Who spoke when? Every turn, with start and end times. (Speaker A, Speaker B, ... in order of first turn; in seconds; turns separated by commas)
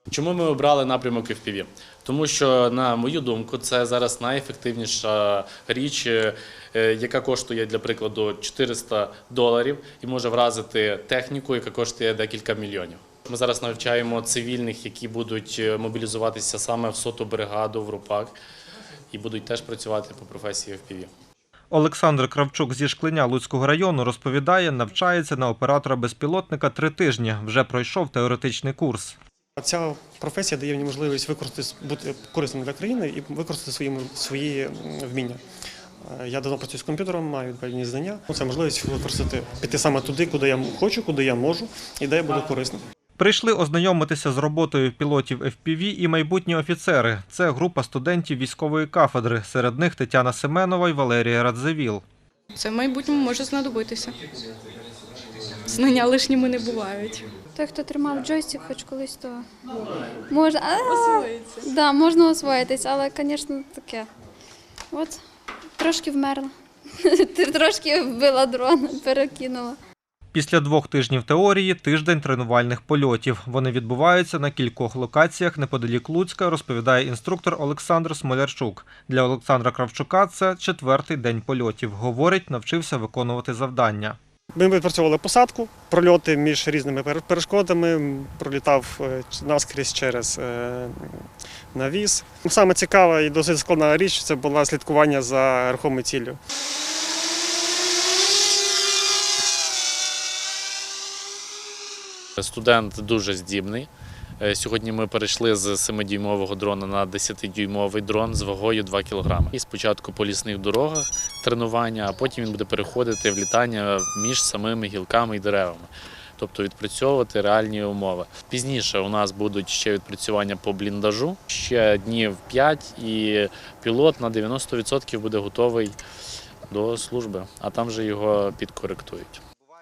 Speaker A: 0.1-18.3, Speaker A: 19.1-21.1, Speaker B: 21.7-29.2, Speaker C: 29.6-35.4, Speaker C: 36.0-42.8, Speaker B: 43.2-52.0, Speaker D: 52.5-54.2, Speaker D: 55.7-57.3, Speaker E: 57.5-59.5, Speaker E: 60.1-64.1, Speaker D: 60.9-61.7, Speaker E: 64.9-65.2, Speaker E: 65.8-69.8, Speaker B: 70.3-84.2, Speaker C: 84.5-96.4, Speaker A: 102.4-126.0, Speaker A: 126.7-129.4